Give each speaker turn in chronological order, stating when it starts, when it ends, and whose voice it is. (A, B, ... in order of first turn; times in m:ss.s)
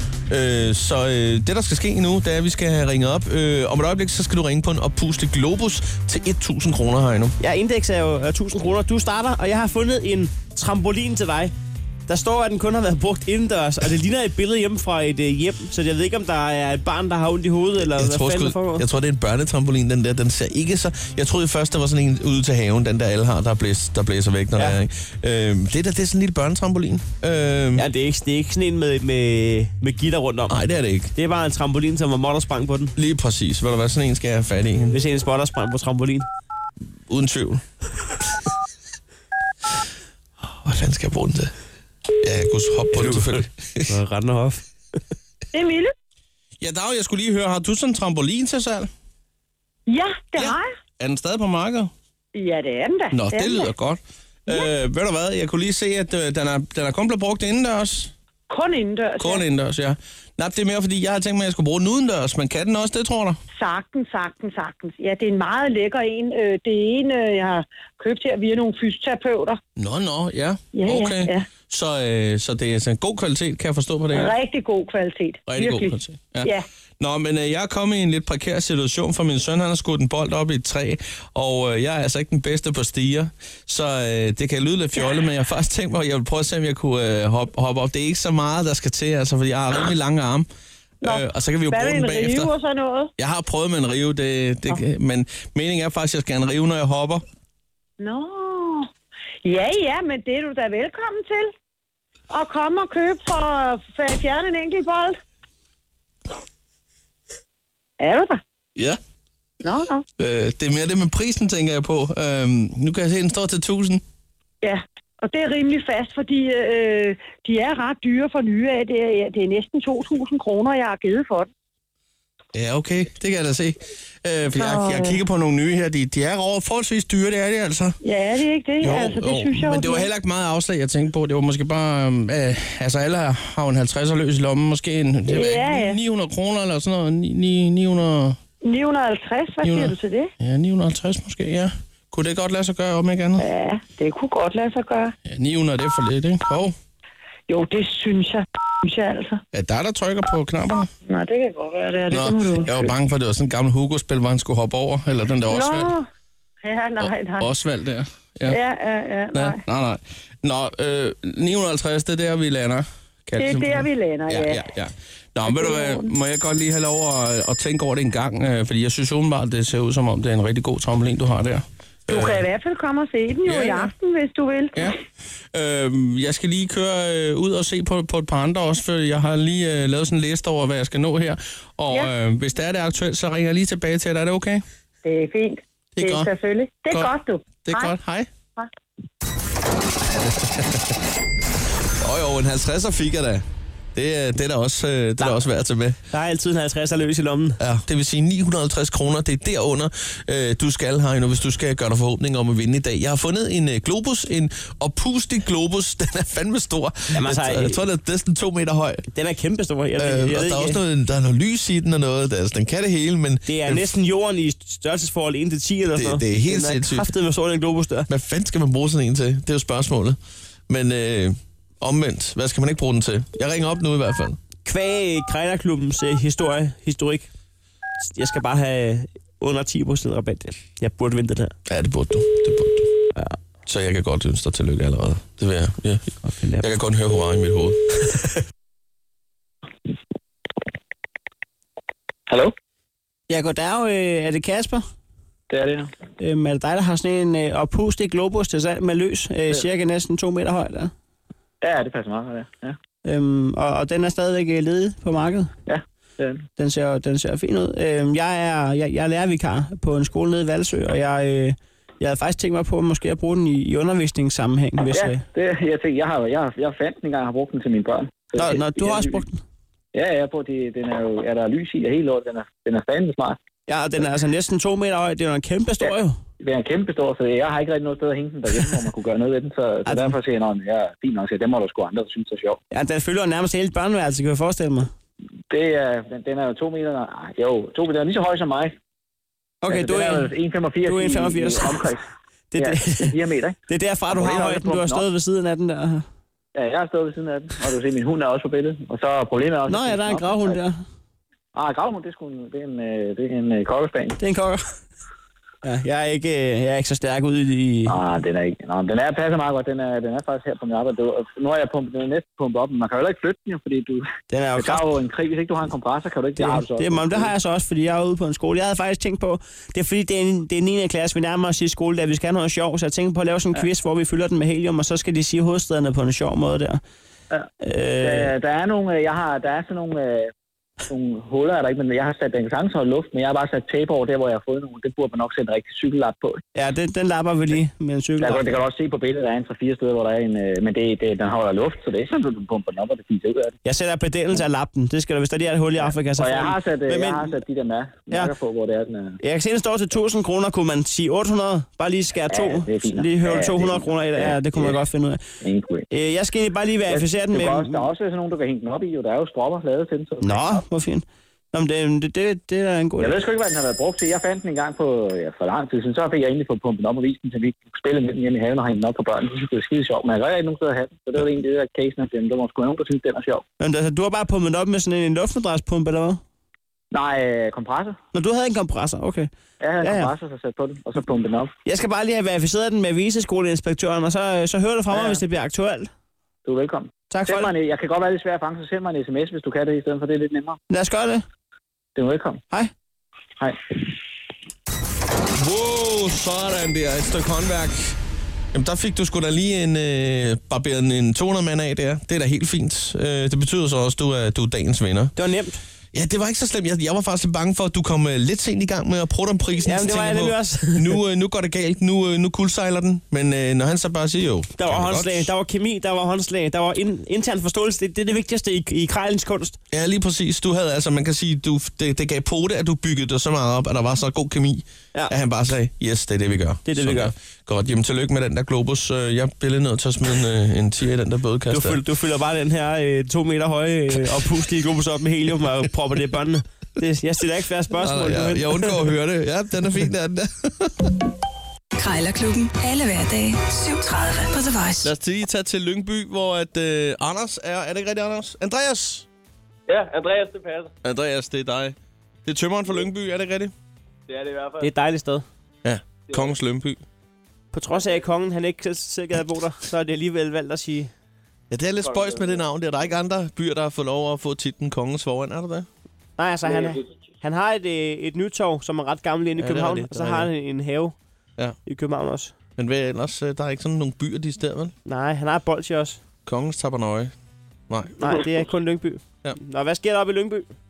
0:00.3-0:07.4 A
0:07.4-0:11.5 B
0:12.1-0:18.8 B
0:17.8-0:27.8 A
0:27.8-0:30.6 B
0:30.5-0:31.1 A
0:31.2-0:33.0 B
0:33.0-0:35.0 A
0:34.9-0:36.3 B
0:37.1-0:37.6 A
0:40.6-0:41.5 A
0:42.2-0:43.9 A
0:42.9-0:44.7 B
0:45.5-0:45.9 C
0:46.6-0:48.9 A
0:49.9-0:50.7 C
0:50.4-0:51.9 A
0:52.4-0:53.7 C
0:53.1-0:58.1 A
0:58.5-0:59.5 C
0:59.2-1:03.4 A
1:03.6-1:09.6 C
1:09.8-1:14.4 A
1:10.7-1:11.5 C
1:14.1-1:16.7 C
1:15.5-1:30.5 A
1:31.0-1:32.5 A
1:31.0-1:33.1 C
1:33.2-1:37.2 A
1:38.0-1:38.9 C
1:39.4-1:41.5 C
1:42.3-1:45.2 C
1:48.0-1:48.4 C
1:49.6-1:50.0 C
1:50.2-1:54.0 A
1:54.6-2:01.5 C
2:02.5-2:08.0 A
2:04.5-2:05.2 C
2:08.0-2:10.1 C
2:08.8-2:18.4 A
2:15.3-2:16.0 C
2:18.6-2:20.3 C
2:19.6-2:23.4 A
2:23.4-2:25.1 C
2:25.3-2:26.8 A
2:27.5-2:29.4 C
2:29.5-2:30.9 A
2:31.1-2:32.9 C
2:32.1-2:35.9 A
2:35.5-2:36.1 C
2:36.6-2:37.5 C
2:37.0-2:38.6 A
2:38.5-2:39.6 C
2:39.3-2:52.4 A
2:43.4-2:44.6 C
2:45.4-2:46.1 C
2:52.1-2:54.9 C
2:53.5-2:53.9 A
2:55.5-3:04.6 A
3:05.0-3:08.0 C
3:06.0-3:06.3 A
3:06.9-3:08.3 A
3:10.2-3:10.9 A
3:12.0-3:13.4 A
3:14.0-3:16.0 A
3:16.1-3:17.6 B
3:17.6-3:29.1 A
3:27.1-3:27.8 B
3:29.1-3:30.8 B
3:30.0-3:33.9 A
3:33.5-3:38.1 B
3:36.0-3:37.1 A
3:38.1-3:40.2 A
3:40.7-3:44.4 A
3:44.6-3:47.3 B
3:48.1-3:51.5 B
3:51.7-3:52.9 A
3:53.7-3:57.8 A
3:56.2-3:56.7 B
4:02.3-4:02.5 D
4:03.3-4:04.8 B
4:05.5-4:05.9 D
4:06.2-4:10.9 B
4:11.6-4:12.8 D
4:13.0-4:15.5 B
4:15.7-4:16.4 D
4:16.6-4:25.2 B
4:24.9-4:29.2 D
4:28.4-4:29.4 B
4:29.9-4:33.4 D
4:33.7-4:36.2 B
4:36.4-4:42.6 D
4:39.9-4:40.2 B
4:42.7-4:44.9 B
4:45.5-4:48.8 D
4:49.6-4:50.3 B
4:49.7-4:52.0 D
4:50.8-4:51.8 B
4:52.5-4:53.2 B
4:52.6-4:53.6 D
4:53.7-4:56.0 B
4:54.1-4:55.1 D
4:56.6-5:00.6 D
4:59.7-5:00.8 B
5:01.6-5:04.2 D
5:04.2-5:04.6 B
5:05.6-5:08.0 B
5:07.9-5:17.3 D
5:14.3-5:14.9 B
5:16.4-5:26.8 B
5:27.6-5:28.3 B
5:28.0-5:30.3 D
5:30.9-5:36.4 D
5:36.6-5:38.5 B
5:38.2-5:43.6 D
5:43.6-5:47.4 B
5:46.2-5:49.2 D
5:49.2-5:55.2 B
5:52.3-5:54.8 D
5:55.4-5:55.9 D
5:55.9-5:57.9 B
5:56.9-6:00.6 D
6:00.2-6:03.2 B
6:03.0-6:13.4 D
6:13.6-6:16.2 B
6:16.9-6:18.0 D
6:18.1-6:19.3 B
6:19.6-6:21.5 D
6:19.8-6:20.1 B
6:21.7-6:25.9 B
6:24.9-6:25.2 D
6:26.4-6:30.6 D
6:27.1-6:27.5 B
6:30.7-6:31.2 B
6:32.0-6:32.4 D
6:35.4-6:38.0 A
6:38.5-6:45.1 A
6:45.2-6:45.6 B
6:45.9-6:55.3 A
6:49.6-6:51.0 B
6:54.6-6:59.6 B
6:59.7-7:11.8 A
7:06.7-7:07.1 B
7:11.5-7:18.8 B
7:17.8-7:20.9 A
7:21.8-7:24.9 E
7:24.8-7:29.1 A
7:29.7-7:30.7 F
7:30.8-7:33.5 A
7:34.1-7:34.7 F
7:34.6-7:35.2 B
7:35.6-7:36.8 A
7:36.1-7:36.4 F
7:37.5-7:40.9 B
7:37.7-7:38.0 F
7:41.5-7:45.7 A
7:41.8-7:42.5 F
7:46.2-7:51.0 B
7:46.4-7:46.9 F
7:49.4-7:50.3 A
7:51.7-7:52.3 B
7:52.6-7:54.7 A
7:54.9-7:56.0 B
7:56.3-7:57.1 A
7:57.7-7:58.0 A
7:58.0-8:00.5 B